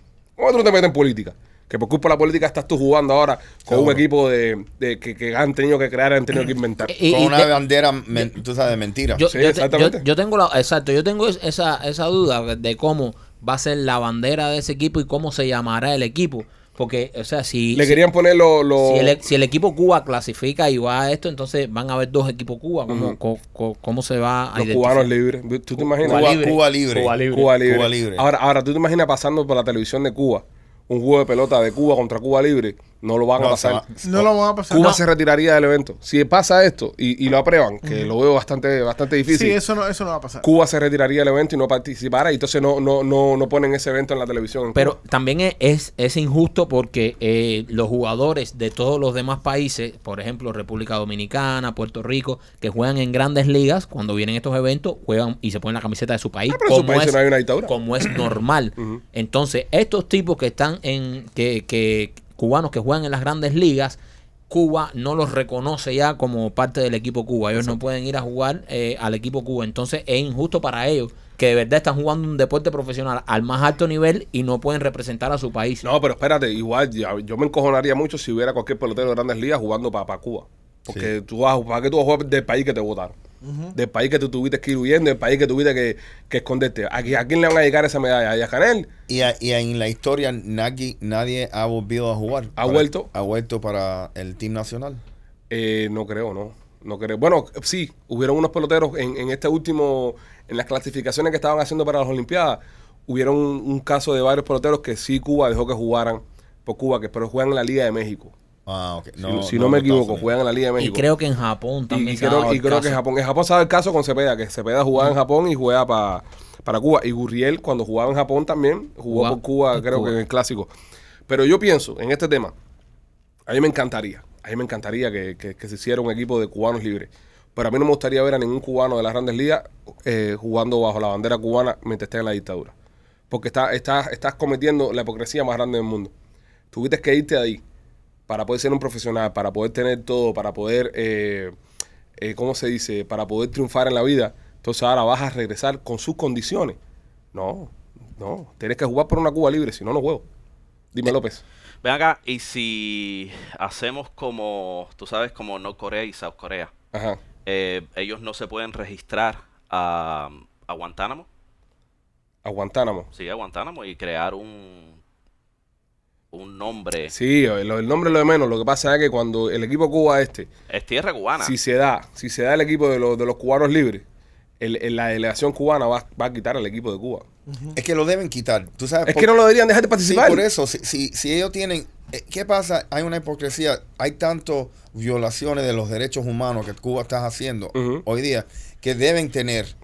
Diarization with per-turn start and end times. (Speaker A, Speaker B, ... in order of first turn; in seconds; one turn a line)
Speaker A: 0.4-6.9
Speaker B: 3.7-4.0
Speaker C: 6.9-7.5
Speaker B: 7.1-9.2
Speaker C: 9.2-18.0
Speaker A: 9.2-10.0
Speaker A: 17.7-19.2
Speaker C: 18.8-25.1
Speaker A: 22.9-23.2
Speaker A: 24.6-26.3
Speaker C: 25.8-27.6
Speaker B: 26.0-28.2
Speaker A: 27.3-33.9
Speaker B: 33.4-34.3
Speaker D: 34.0-35.0
Speaker A: 34.7-39.6
Speaker D: 37.8-38.1
Speaker D: 39.3-40.5
Speaker A: 40.4-45.0
Speaker C: 44.7-64.0
Speaker A: 56.5-57.7
Speaker C: 64.5-75.8
Speaker A: 75.8-83.1
Speaker D: 83.4-83.7
Speaker A: 83.7-88.9
Speaker B: 89.1-95.0
Speaker A: 92.6-93.1
Speaker A: 95.5-108.3
Speaker B: 108.7-110.3
Speaker A: 109.2-111.0
Speaker C: 110.8-113.0
Speaker A: 111.9-120.7
Speaker C: 119.1-120.1
Speaker A: 121.3-122.5
Speaker A: 123.5-132.7
Speaker A: 133.3-136.1
Speaker A: 136.7-137.6
Speaker A: 138.3-141.5
Speaker A: 142.2-146.8
Speaker A: 147.3-150.2
Speaker A: 150.9-151.4
Speaker E: 151.8-156.7
Speaker A: 156.9-157.2
Speaker E: 157.4-161.2
Speaker A: 162.4-163.1
Speaker E: 163.1-165.0
Speaker E: 166.3-167.1
Speaker A: 167.1-170.5
Speaker E: 170.7-171.5
Speaker A: 171.4-174.0
Speaker A: 174.6-177.2
Speaker B: 177.7-179.3
Speaker A: 179.1-180.4
Speaker B: 180.0-189.7
Speaker A: 187.7-188.0